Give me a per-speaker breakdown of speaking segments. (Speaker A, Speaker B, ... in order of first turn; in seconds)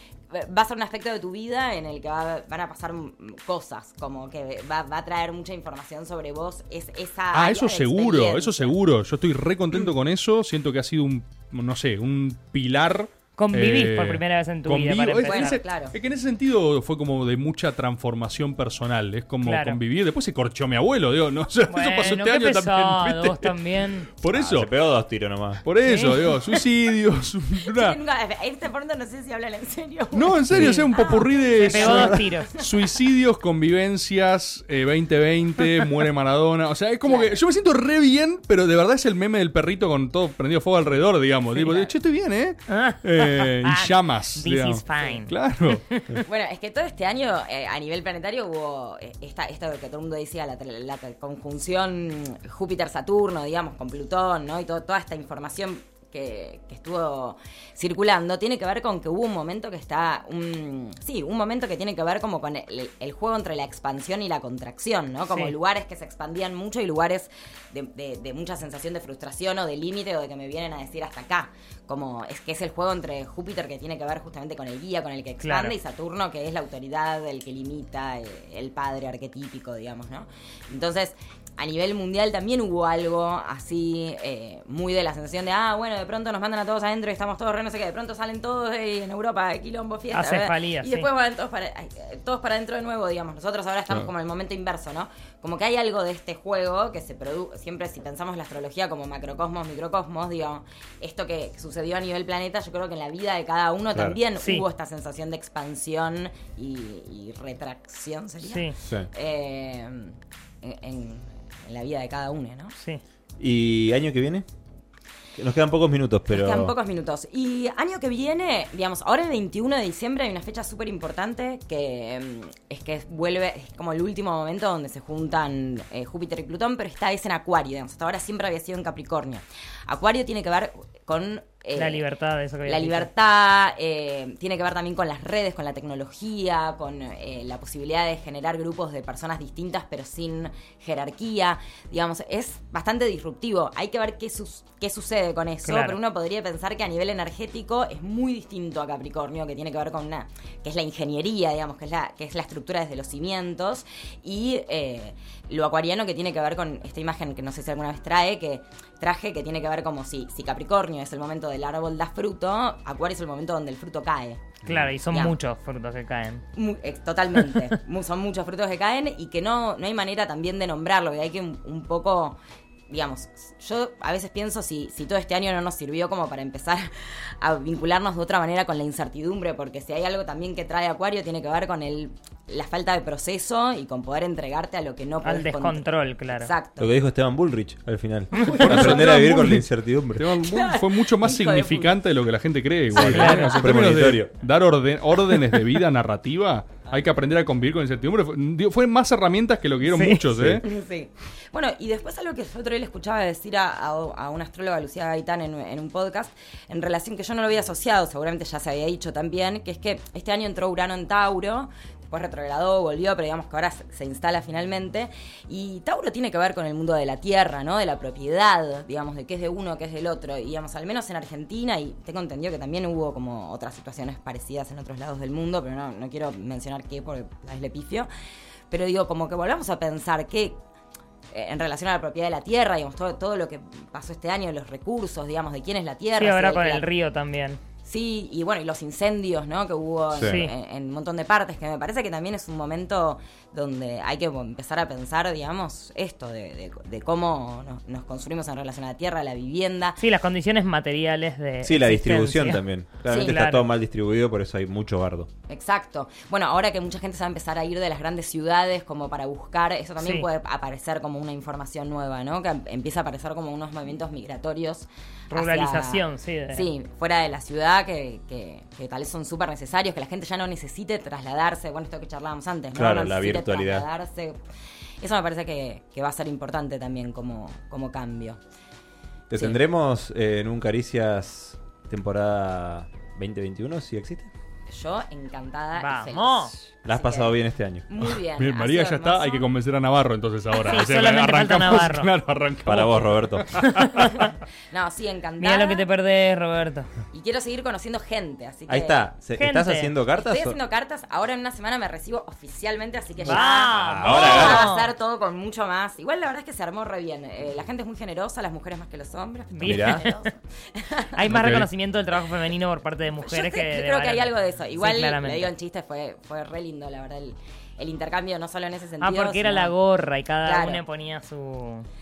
Speaker A: 0.3-8.8, 15.2-15.9, 27.6-32.7, 37.0-37.4, 46.2-112.7, 116.3-132.0, 132.7-164.6, 165.1-165.3, 166.6-172.4, 172.9-186.9, 188.3-189.0, 190.4-191.9, 200.6-228.1, 228.7-230.6, 231.3-236.8, 237.8-250.0, 253.1-253.4, 255.5-274.4, 275.0-278.4, 284.7-289.5, 294.7-295.8, 297.1-299.0, 300.1-311.2, 313.2-319.7, 320.4-320.8
Speaker B: 7.3-24.7, 25.6-28.0, 30.1-45.8, 188.6-200.7, 288.4-294.2, 311.3-311.7
Speaker C: 13.4-15.6, 19.4-19.8, 21.7-24.1, 25.8-26.3, 31.6-32.5, 42.7-45.3, 45.9-46.1, 65.3-65.5, 75.4-75.7, 90.1-91.1, 108.4-108.8, 131.8-133.1, 145.7-146.0, 164.7-166.4, 185.2-186.5, 193.0-193.8, 199.8-200.2, 236.2-237.6, 240.2-240.5, 250.0-253.7, 260.0-260.3, 265.3-266.7, 285.8-286.5, 290.7-292.1, 293.6-294.3, 295.4-296.9, 299.4-299.9, 303.2-304.9, 309.5-310.2, 311.1-315.5, 319.0-321.9
Speaker D: 24.3-25.6, 108.8-109.1, 113.4-114.4, 115.3-116.7, 164.6-164.9, 186.8-190.3, 192.9-194.3, 200.3-200.6, 251.6-255.3, 272.8-273.9, 279.3-284.3, 286.8-287.9, 292.7-293.6, 298.7-300.5, 303.3-304.6, 309.6-310.0